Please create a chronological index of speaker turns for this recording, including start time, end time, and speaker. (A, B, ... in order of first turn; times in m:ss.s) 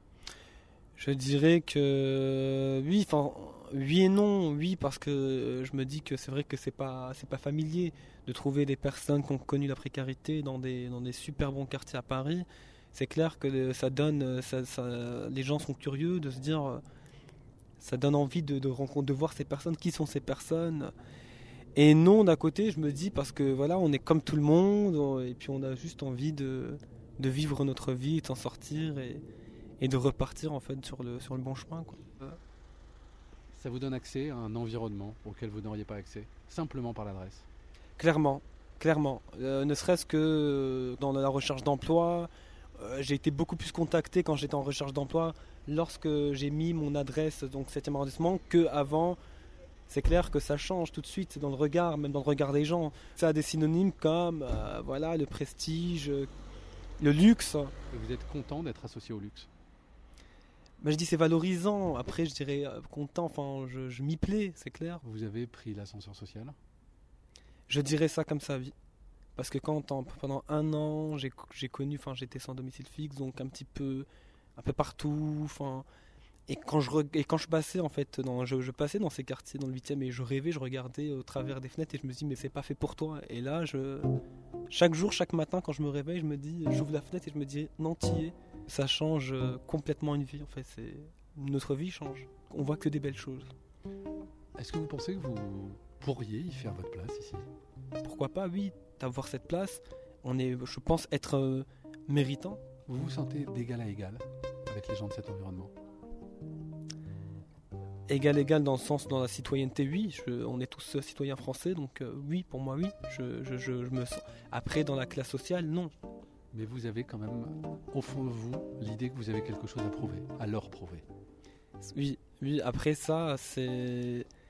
0:01.0-0:16.8 A
0:17.8-0:20.9 A
0:21.7-0:29.2 A
0:29.8-0:32.4 A
0:33.5-0:37.5 B
0:38.0-0:49.2 A
0:49.9-0:56.3 A
0:57.0-0:57.7 A
0:57.9-0:59.5 B
1:00.8-1:05.0 A
1:05.0-1:06.6 B
1:07.7-1:08.7 A
1:09.4-1:15.8 A
1:16.5-1:24.1 A
1:24.7-1:33.5 A
1:34.6-1:37.5 B
1:38.0-1:42.6 A
1:42.9-1:45.7 B
1:48.1-1:55.9 A
1:56.5-2:01.0 B
2:01.8-2:04.3 A